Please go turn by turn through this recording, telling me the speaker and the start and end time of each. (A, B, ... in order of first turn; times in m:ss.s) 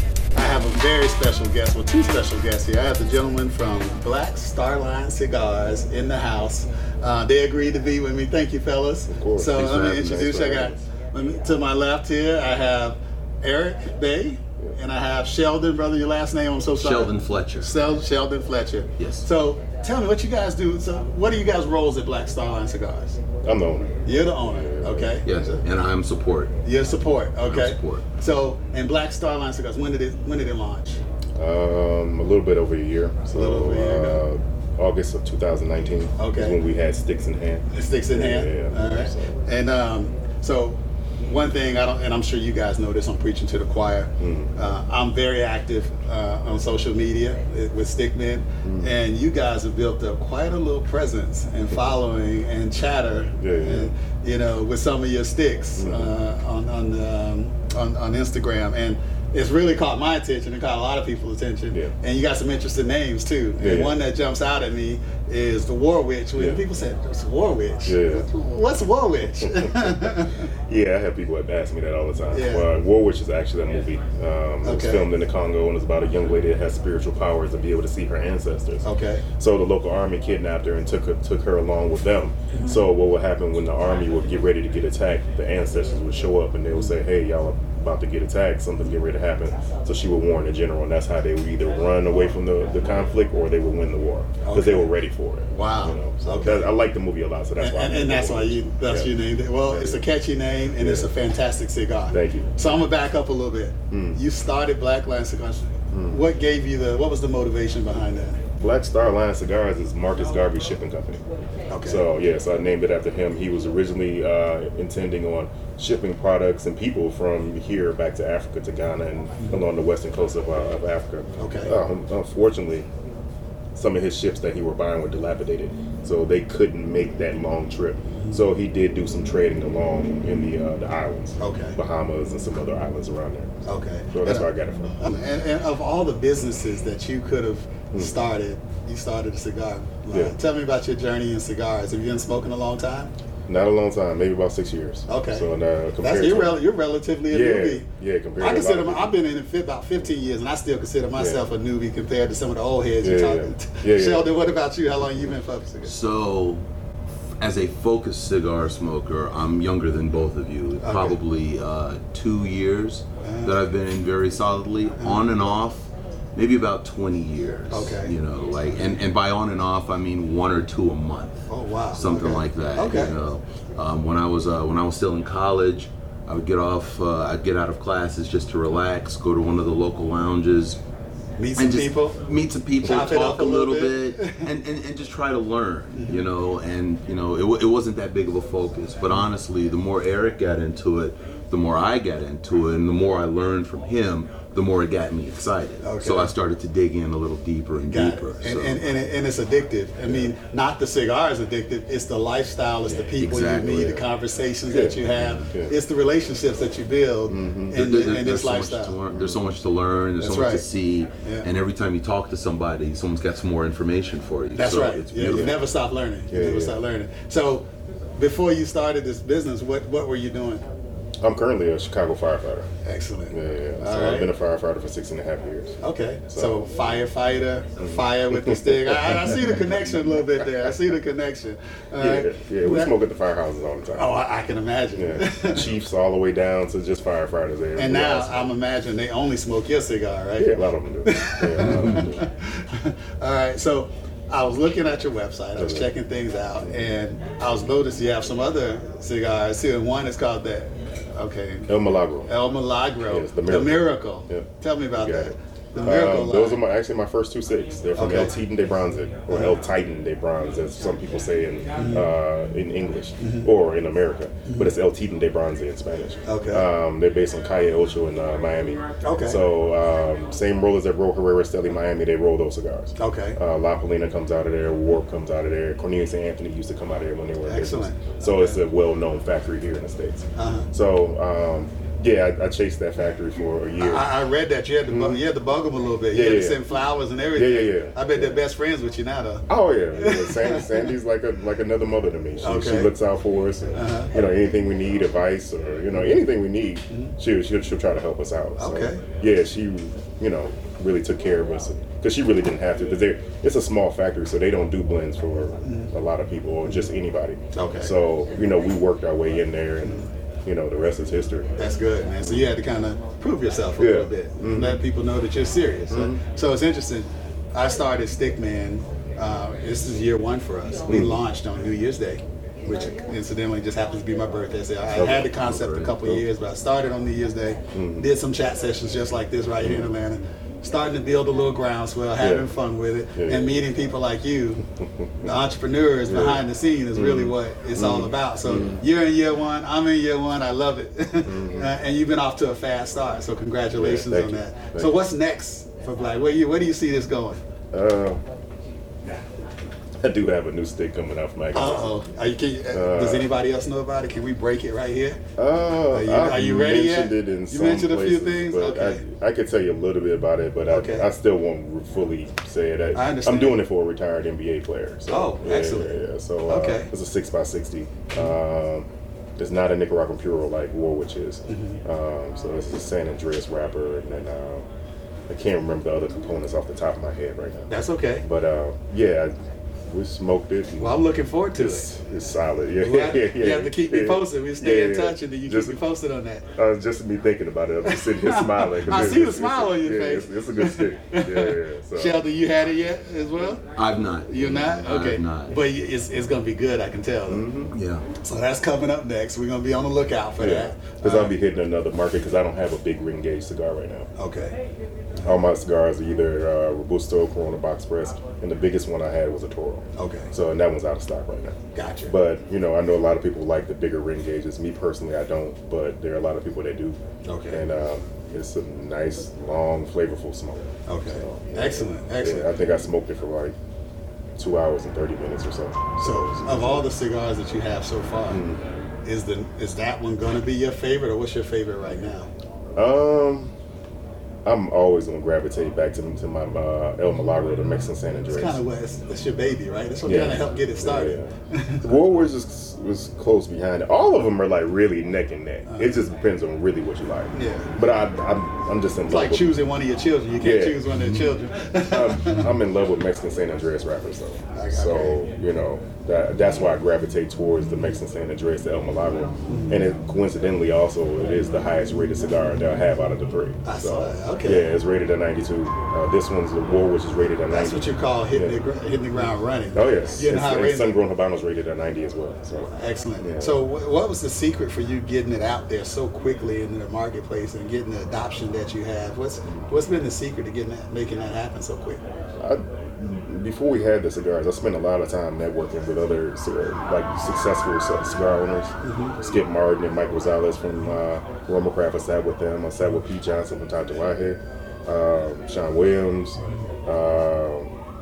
0:00.3-0:23.2 A
0:09.1-0:10.8 B
0:09.5-0:10.2 C
0:16.8-0:17.7 C
0:19.0-0:19.3 C
0:23.4-0:25.2 B
0:24.0-0:25.6 A
0:25.3-0:26.6 C
0:26.6-0:31.0 A
0:27.4-0:28.1 C
0:31.4-0:39.4 B
0:33.3-0:34.2 A
0:36.2-0:36.6 A
0:37.7-1:10.5 A
0:44.2-0:44.5 B
0:48.6-0:49.0 B
0:53.4-0:53.9 B
0:55.8-0:56.2 B
1:03.6-1:04.0 B
1:06.4-1:06.6 B
1:07.9-1:08.3 B
1:09.6-1:18.9 B
1:12.3-1:12.7 A
1:14.6-1:15.1 A
1:18.8-1:19.2 A
1:19.4-1:39.1 B
1:34.4-1:34.9 A
1:35.5-1:36.7 A
1:37.6-1:48.4 A
1:39.7-1:40.1 B
1:40.8-1:41.1 B
1:42.1-1:42.7 B
1:43.9-1:44.2 B
1:45.9-1:46.2 B
1:48.6-1:51.2 B
1:51.7-1:52.1 A
1:51.8-2:02.9 B
2:01.4-2:01.8 A
2:03.8-2:13.6 B
2:08.2-2:08.4 A
2:11.4-2:11.8 A
2:13.7-2:23.1 A
2:14.1-2:15.2 B
2:23.5-2:26.6 B
2:25.1-2:25.5 A
2:26.0-2:27.9 A
2:27.3-2:29.1 B
2:28.4-2:36.0 A
2:31.2-2:31.4 B
2:33.0-2:34.6 B
2:35.8-2:36.6 C
2:37.4-3:00.8 C
2:40.8-2:41.2 A
2:43.2-2:43.6 A
2:45.0-2:45.5 A
2:47.7-2:48.2 A
2:51.5-2:53.2 A
3:01.4-3:02.2 A
3:01.6-3:18.9 C
3:02.8-3:04.5 A
3:06.0-3:06.2 A
3:15.8-3:16.3 A
3:17.9-3:29.0 A
3:20.0-3:20.3 B
3:22.9-3:24.0 B
3:23.2-3:24.0 C
3:24.7-3:25.8 B
3:25.1-3:25.5 C
3:27.3-3:27.9 B
3:27.7-3:35.6 C
3:29.1-3:29.4 B
3:30.2-3:30.6 A
3:31.2-3:31.5 A
3:34.5-3:40.6 A
3:35.2-3:35.5 B
3:36.3-3:36.8 B
3:41.2-3:42.7 B
3:42.8-3:44.3 A
3:43.3-3:46.7 B
3:45.8-3:52.9 A
3:47.8-3:50.7 B
3:52.0-3:54.1 B
3:53.9-3:55.7 A
3:55.0-3:58.5 B
3:57.8-4:16.6 A
4:00.4-4:02.2 B
4:05.6-4:05.9 B
4:06.6-4:06.9 B
4:11.7-4:12.3 B
4:13.1-4:44.1 B
4:18.0-4:18.3 A
4:19.3-4:19.6 A
4:21.8-4:22.1 A
4:23.2-4:23.5 A
4:24.5-4:24.7 A
4:26.3-4:26.7 A
4:29.0-4:29.4 A
4:33.0-4:33.4 A
4:37.5-4:38.6 A
4:40.4-4:40.7 A
4:43.8-4:50.9 A
4:44.9-4:45.2 B
4:46.1-4:46.6 B
4:47.3-4:48.4 B
4:49.5-5:11.5 B
4:52.4-4:52.9 A
4:53.8-4:54.1 A
4:56.9-4:57.2 A
4:58.6-4:59.0 A
5:05.6-5:05.9 A
5:07.5-5:07.9 A
5:11.6-5:34.6 A
5:12.2-5:12.5 B
5:13.8-5:14.8 B
5:15.9-5:16.2 B
5:20.9-5:21.2 B
5:25.0-5:26.3 B
5:25.3-5:25.9 C
5:27.7-5:28.1 B
5:29.6-5:29.9 B
5:32.2-5:32.5 B
5:33.2-5:33.6 B
5:35.0-5:35.3 B
5:35.2-5:47.4 A
5:36.1-5:38.8 B
5:41.2-5:41.7 B
5:43.7-5:45.0 B
5:47.7-5:48.2 B
5:50.0-5:51.9 B
5:51.5-5:55.2 A
5:52.7-5:53.3 B
5:55.4-6:14.7 B
5:55.9-5:59.0 A
6:00.7-6:01.1 A
6:02.9-6:03.6 A
6:05.1-6:06.9 A
6:11.5-6:11.8 A
6:15.3-6:17.7 B
6:17.7-6:18.2 A
6:18.2-6:19.3 B
6:19.9-6:21.0 B
6:20.8-6:21.9 A
6:21.5-6:25.8 B
6:22.8-6:26.5 A
6:26.6-6:32.2 B
6:27.8-6:33.6 A
6:33.8-6:35.6 C
6:34.3-6:37.5 A
6:37.3-6:37.8 B
6:37.7-6:38.1 C
6:38.2-6:41.4 A
6:40.4-6:44.1 B
6:44.2-6:44.6 A
6:45.2-7:03.6 B
6:50.0-6:50.3 A
6:51.8-6:52.1 A
6:57.2-6:57.7 A
7:00.9-7:02.5 A
7:04.4-7:06.9 B
7:06.0-7:08.5 A
7:08.3-7:08.6 B
7:09.0-7:12.3 A
7:12.8-7:13.5 B
7:14.4-7:18.6 B
7:18.3-7:21.9 A
7:20.0-7:29.5 B
7:25.7-7:26.0 A
7:27.3-7:27.7 A
7:29.1-7:32.5 A
7:30.4-7:31.0 B
7:31.8-7:48.6 B
7:34.5-7:35.2 A
7:39.5-7:39.8 A
7:43.6-7:44.7 A
7:47.5-7:51.0 A
7:49.7-7:53.6 B
7:52.7-8:02.0 A
7:59.4-7:59.7 B
8:02.4-8:17.7 B
8:08.8-8:09.2 A